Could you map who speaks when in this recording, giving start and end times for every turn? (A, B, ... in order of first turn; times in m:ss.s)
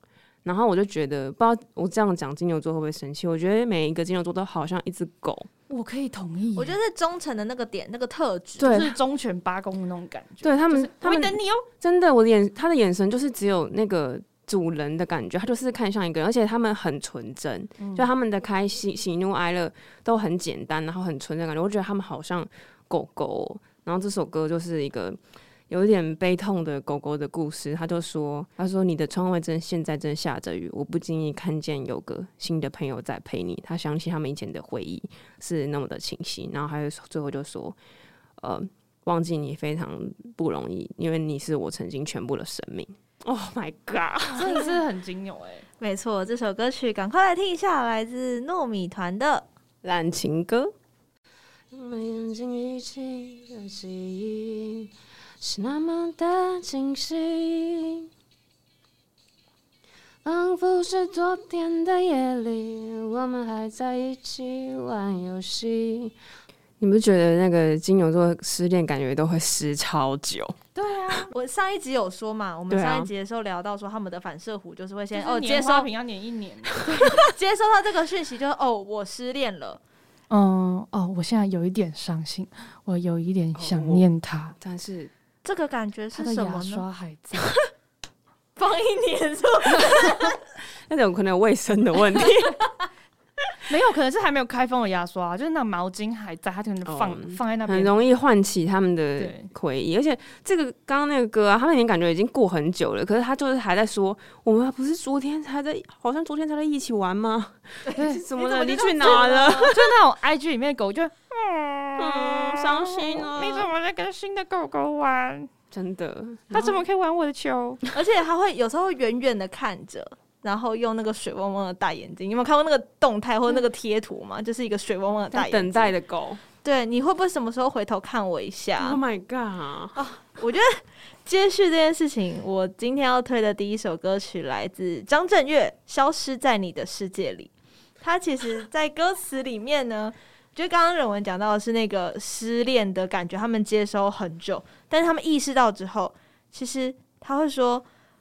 0:00.4-0:05.5 A
0:05.7-0:06.8 B
0:06.6-0:08.8 C
0:08.6-0:08.9 A
0:08.6-0:11.7 B
0:10.4-0:25.2 A
0:17.8-0:18.1 B
0:25.7-0:37.8 A
0:38.4-0:44.6 A
0:44.3-0:45.7 B
0:45.8-0:49.5 C
0:49.8-0:50.7 A
0:51.7-0:58.0 A
1:00.2-1:06.1 A
1:06.8-1:10.6 A
1:10.7-1:11.3 B
1:11.3-1:15.9 C
1:12.7-1:13.1 A
1:15.1-1:17.2 B
1:16.8-1:19.8 C
1:20.3-1:24.5 B
1:23.6-1:25.1 A
1:25.4-1:26.8 C
1:26.1-1:27.5 B
1:28.6-1:30.4 C
1:29.7-1:30.2 B
1:30.9-1:32.6 A
1:33.7-1:37.9 B
1:36.8-1:49.9 A
1:39.2-1:39.5 B
1:47.9-1:49.8 C
1:48.0-1:48.2 B
1:49.0-1:55.5 B
1:52.0-1:53.7 A
1:55.7-1:56.6 A
1:56.5-1:57.8 B
1:57.9-2:05.9 C
2:05.3-2:06.4 A
2:06.6-2:09.0 C
2:08.8-2:10.0 A
2:09.9-2:27.8 C